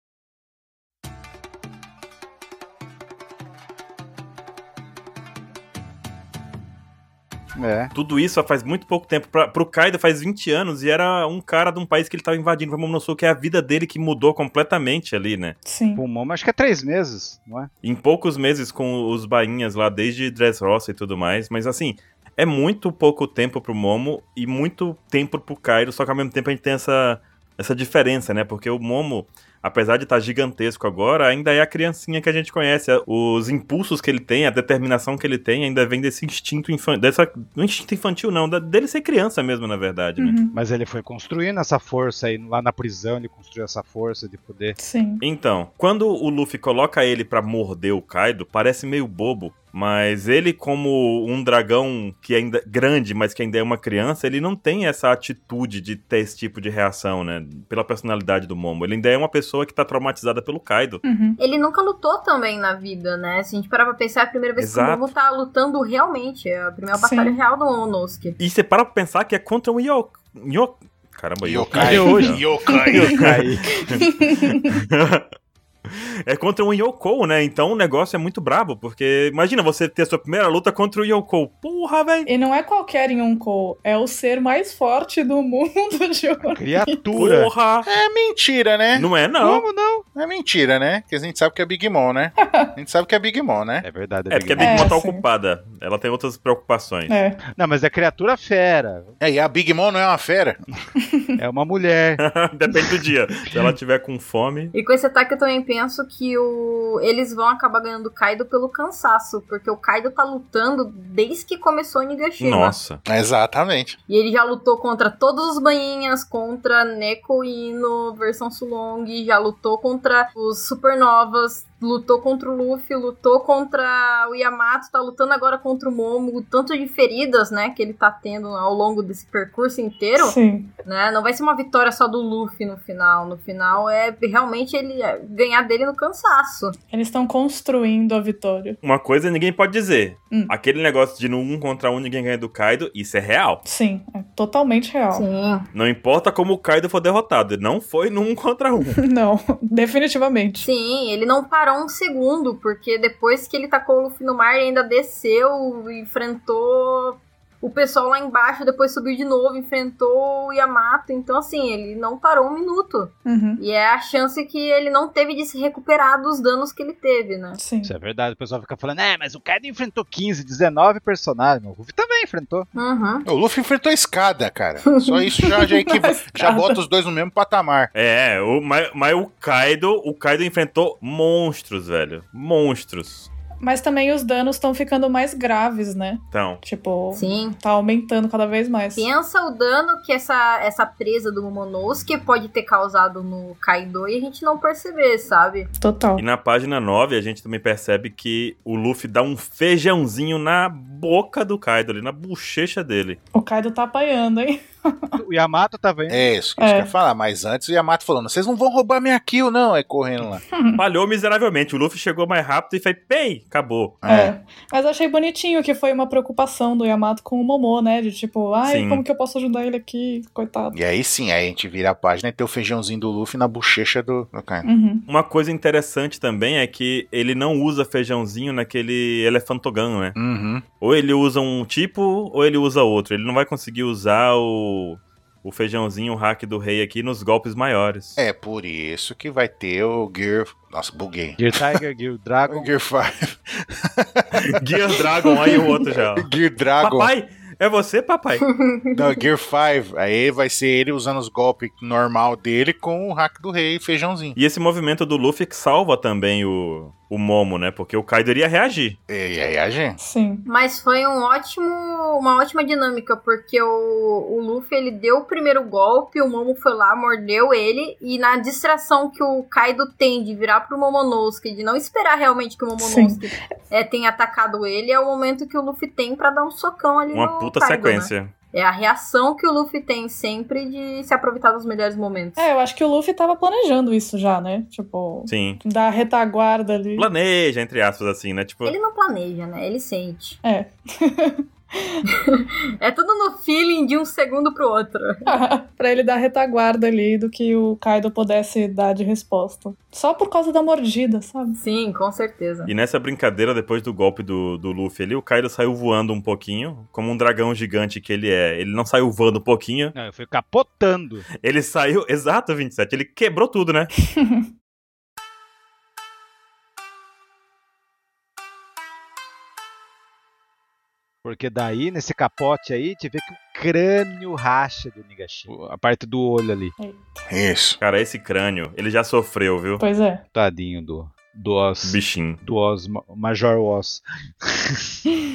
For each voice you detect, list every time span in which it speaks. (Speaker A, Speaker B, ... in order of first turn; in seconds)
Speaker A: 7.5-7.9, 15.9-17.7, 40.5-44.8, 71.7-73.8, 86.4-87.5, 89.4-90.0, 93.8-94.9, 97.5-99.1, 101.4-102.2, 167.8-172.7, 205.2-206.3, 241.4-242.7, 309.9-311.3, 321.2-326.7, 330.3-334.9
Speaker B: 7.9-15.6, 17.8-40.4, 45.2-61.0, 64.6-65.1, 68.4-72.4, 73.2-74.0, 74.7-75.3, 75.9-82.3, 87.1-87.9, 88.9-89.7, 94.3-97.2, 102.2-104.7, 112.4-113.0, 138.8-143.6, 145.7-149.0, 177.9-183.3, 186.3-186.6, 196.2-203.2, 210.8-214.0, 218.6-219.0, 225.1-230.2, 230.8-238.2, 244.5-246.3, 246.8-248.4, 254.4-259.0, 277.1-278.3, 285.3-285.6, 287.0-288.7, 302.6-309.9, 311.4-313.9, 327.8-329.8, 331.8-332.4
Speaker C: 15.7-16.0, 40.2-40.5, 44.8-45.2, 61.0-61.4, 66.9-67.4, 73.9-74.7, 82.2-87.0, 92.4-92.7, 94.6-95.2, 97.1-97.4, 130.2-130.7, 136.9-138.8, 143.6-145.2, 149.0-150.7, 163.2-163.6, 167.6-167.9, 175.4-176.8, 183.6-189.1, 195.8-196.2, 203.3-205.2, 206.6-206.9, 210.5-210.8, 214.1-220.8, 224.6-225.1, 260.0-260.4, 272.8-273.2, 282.4-287.1, 290.4-292.0, 295.2-301.6, 314.1-314.4, 326.8-327.3, 329.8-330.2
Speaker D: 61.4-68.4, 104.7-112.8, 114.1-136.8, 145.1-145.7, 150.6-167.6, 172.7-173.2, 187.1-187.6, 188.9-195.7, 248.4-249.1, 260.5-282.4, 288.6-290.4, 292.2-295.3, 301.6-302.7
Speaker E: 71.4-73.3, 87.8-89.1, 90.1-93.8, 99.2-100.6, 113.0-114.0, 173.2-177.9, 206.1-210.4, 214.0-214.3, 220.7-224.7, 230.2-230.6, 238.2-241.8, 242.5-247.1, 248.9-254.4, 259.1-260.0, 327.3-327.8